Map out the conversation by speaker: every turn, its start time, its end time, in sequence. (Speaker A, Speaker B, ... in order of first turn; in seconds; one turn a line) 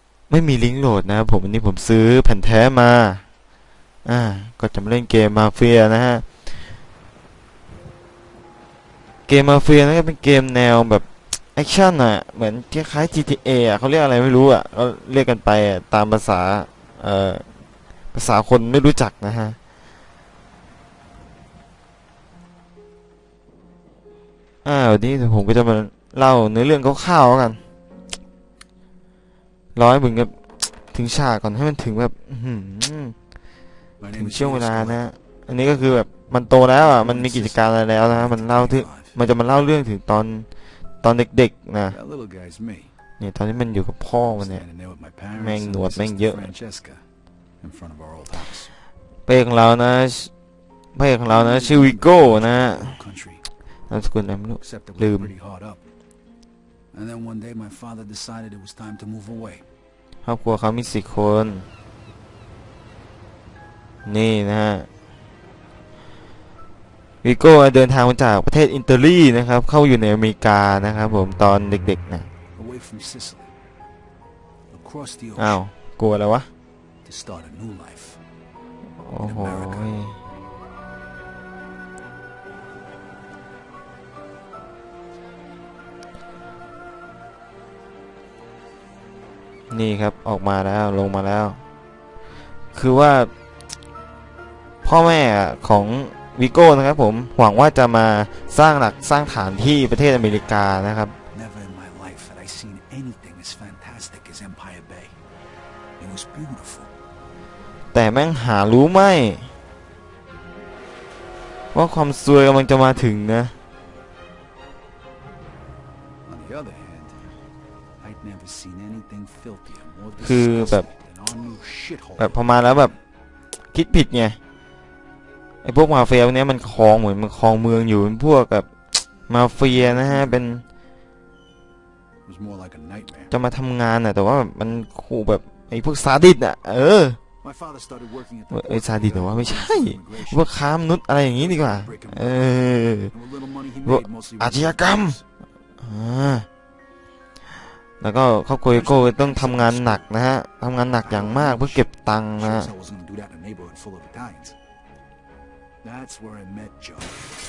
Speaker A: 0.3-3.2
Speaker A: 4.0-6.4
Speaker A: 9.3-17.4
Speaker A: 18.1-19.6
Speaker A: 24.6-27.6
Speaker A: 29.7-33.1
Speaker B: 34.0-35.0
Speaker A: 34.1-40.5
Speaker B: 36.9-39.1
Speaker A: 41.0-42.0
Speaker B: 41.9-42.9
Speaker A: 43.2-44.6
Speaker B: 44.4-47.0
Speaker A: 45.3-46.5
Speaker B: 47.6-48.7
Speaker A: 49.3-50.3
Speaker A: 50.9-53.0
Speaker B: 51.3-53.4
Speaker A: 53.9-55.3
Speaker B: 54.6-55.9
Speaker B: 56.9-59.6
Speaker A: 60.2-61.6
Speaker A: 64.0-64.9
Speaker A: 67.2-72.3
Speaker B: 72.5-73.5
Speaker B: 74.7-75.6
Speaker A: 75.4-76.5
Speaker B: 77.0-78.2
Speaker A: 79.0-80.2
Speaker B: 79.2-79.9
Speaker A: 89.7-91.6
Speaker A: 92.7-93.3
Speaker A: 94.8-101.1
Speaker B: 101.3-105.2
Speaker B: 106.0-106.9
Speaker A: 107.9-109.5
Speaker A: 111.7-113.5
Speaker B: 116.3-117.3
Speaker B: 118.0-122.5
Speaker A: 120.2-120.8
Speaker A: 122.2-122.9
Speaker A: 123.7-124.4
Speaker A: 125.6-130.6
Speaker B: 129.6-130.5
Speaker B: 132.2-133.3
Speaker A: 133.3-137.2
Speaker B: 137.4-140.5
Speaker A: 138.5-143.1
Speaker B: 141.4-145.2
Speaker A: 143.8-145.2
Speaker A: 145.8-146.4
Speaker A: 148.0-152.7
Speaker B: 148.7-150.1
Speaker B: 151.0-154.6
Speaker B: 155.8-157.2